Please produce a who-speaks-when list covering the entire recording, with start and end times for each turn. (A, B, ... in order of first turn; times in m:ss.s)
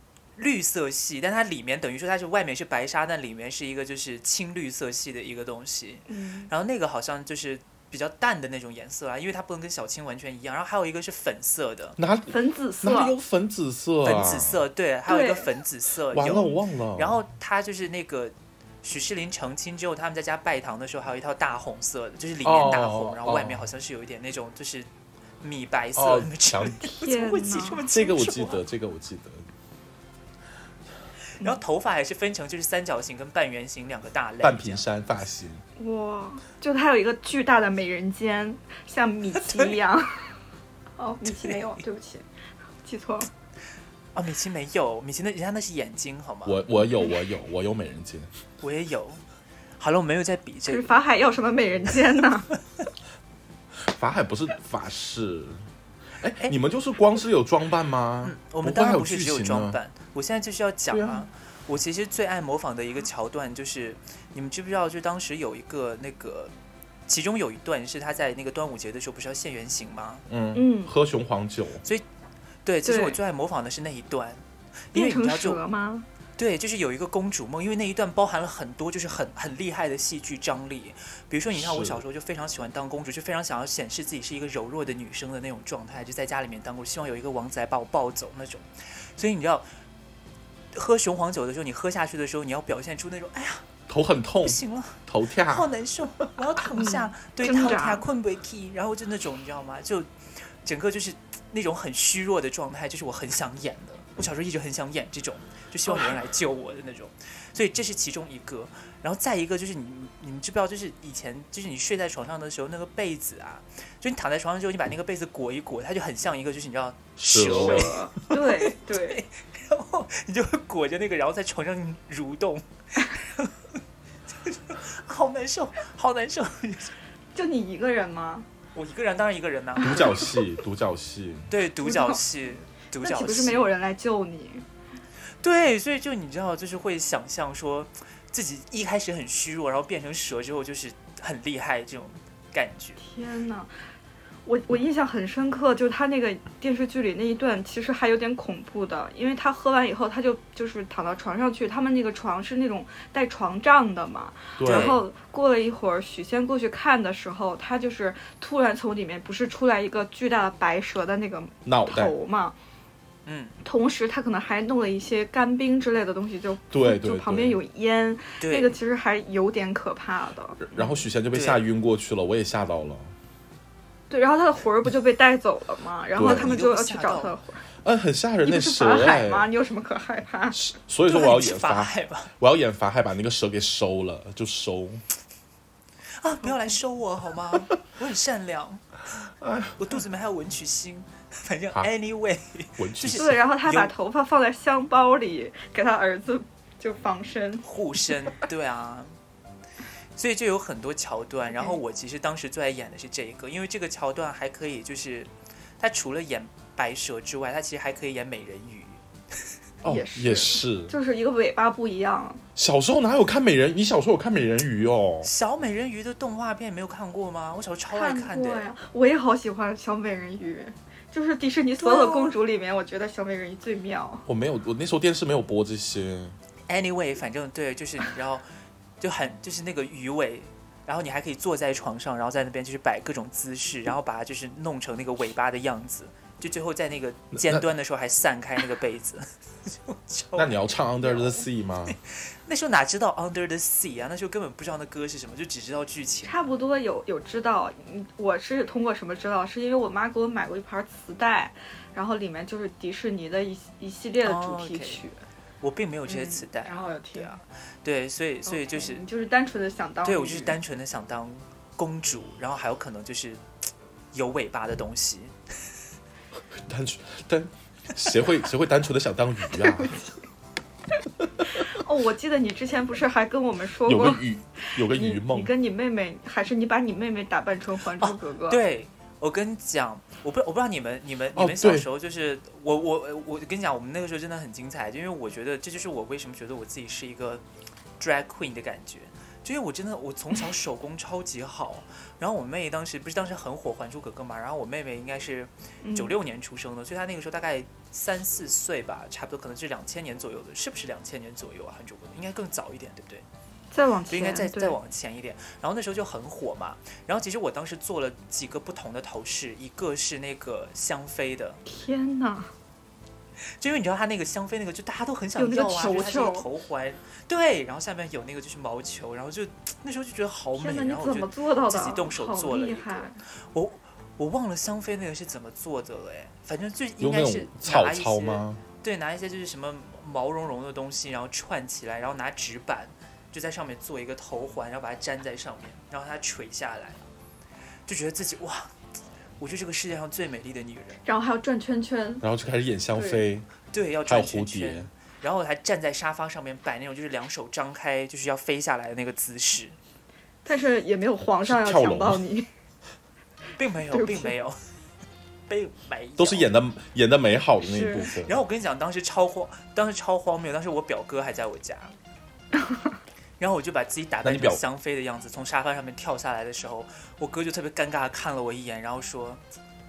0:00.4-0:12.0 A
0:06.1-0:06.5 B
0:12.0-0:14.6 C
0:12.3-0:13.1 B
0:14.0-0:24.9 A
0:15.1-0:15.5 B
0:16.1-0:17.2 C
0:22.4-0:23.6 C
0:25.4-0:28.6 A
0:25.9-0:26.8 C
0:26.8-0:27.8 B
0:27.9-0:29.4 C
0:31.3-0:34.8 A
0:34.4-0:35.6 C
0:35.8-0:40.4 B
0:39.4-0:39.7 A
0:41.0-0:42.2 B
0:41.3-0:41.8 A
0:42.8-0:43.3 B
0:44.1-0:46.6 A
0:46.4-0:48.3 C
0:48.6-0:49.2 A
0:49.8-0:50.9 A
0:50.7-0:52.5 B
0:53.8-0:55.6 C
0:56.2-0:59.8 C
0:58.2-1:06.5 A
1:00.9-1:01.2 C
1:07.1-1:10.2 A
1:10.3-1:11.8 C
1:10.5-1:10.9 B
1:12.6-1:15.6 A
1:12.8-1:13.2 B
1:14.9-1:16.1 B
1:16.4-1:29.7 A
1:21.5-1:22.0 C
1:30.7-1:33.6 A
1:33.9-1:35.7 C
1:34.4-2:03.6 A
1:36.8-1:38.0 B
1:45.9-1:46.2 B
1:57.2-1:58.0 C
1:57.4-1:59.2 B
2:04.3-2:06.9 A
2:07.3-2:08.5 B
2:08.7-2:10.2 A
2:09.8-2:11.5 C
2:11.5-2:13.7 A
2:11.8-2:12.2 B
2:13.0-2:14.6 B
2:15.4-2:23.0 A
2:23.0-2:23.7 B
2:24.4-2:42.6 B
2:34.6-2:35.0 C
2:34.6-2:35.0 A
2:41.6-2:42.1 C
2:43.2-2:43.5 A
2:43.6-2:51.0 B
2:46.7-2:47.6 C
2:48.4-2:48.7 A
2:50.6-2:53.1 C
2:51.3-2:51.6 A
2:54.1-2:57.6 B
2:56.1-2:56.6 C
2:56.2-2:57.3 A
2:57.8-2:59.5 C
2:58.4-3:00.6 B
3:00.5-3:05.0 C
3:01.0-3:02.3 A
3:06.2-3:08.8 A
3:09.4-3:09.8 C
3:09.8-3:13.9 A
3:12.8-3:13.4 C
3:13.1-3:17.6 B
3:17.6-3:19.2 A
3:20.2-3:29.0 A
3:21.5-3:21.8 B
3:29.8-3:30.9 C
3:29.8-3:32.4 B
3:32.6-3:35.3 C
3:35.2-3:38.7 A
3:37.9-3:44.2 B
3:41.8-3:42.3 A
3:44.2-3:46.4 C
3:46.7-3:48.4 A
3:49.0-4:00.7 A
3:57.3-3:57.6 C
4:00.4-4:02.0 C
4:01.0-4:01.4 B
4:01.9-4:06.4 A
4:06.2-4:15.2 B
4:14.2-4:15.0 A
4:15.6-4:19.0 A
4:16.1-4:17.4 B
4:18.4-4:20.6 B
4:20.0-4:23.4 A
4:24.1-4:25.3 A
4:26.6-4:30.0 C
4:29.6-4:30.1 B
4:31.5-4:38.6 B
4:33.8-4:35.5 C
4:38.0-4:47.4 A
4:41.3-4:41.9 C
4:48.0-5:03.2 A
4:55.8-4:56.1 B
5:03.7-5:04.8 B
5:04.1-5:11.6 A
5:11.6-5:12.5 B
5:13.6-5:37.0 A
5:15.4-5:16.5 B
5:20.5-5:23.2 B
5:27.0-5:28.6 C
5:37.8-5:38.7 A
5:39.4-5:41.0 A
5:41.0-5:42.2 B
5:42.2-5:43.5 C
5:42.9-5:43.2 B
5:43.7-5:49.8 A
5:44.0-5:44.9 C
5:50.4-5:52.5 B
5:51.4-5:52.2 C
5:53.6-5:54.6 A
5:53.9-5:54.3 B
5:55.5-5:56.5 A
5:56.2-5:58.4 C
5:57.6-5:58.1 B
5:58.2-6:02.0 A
6:03.4-6:09.4 A
6:04.2-6:04.6 C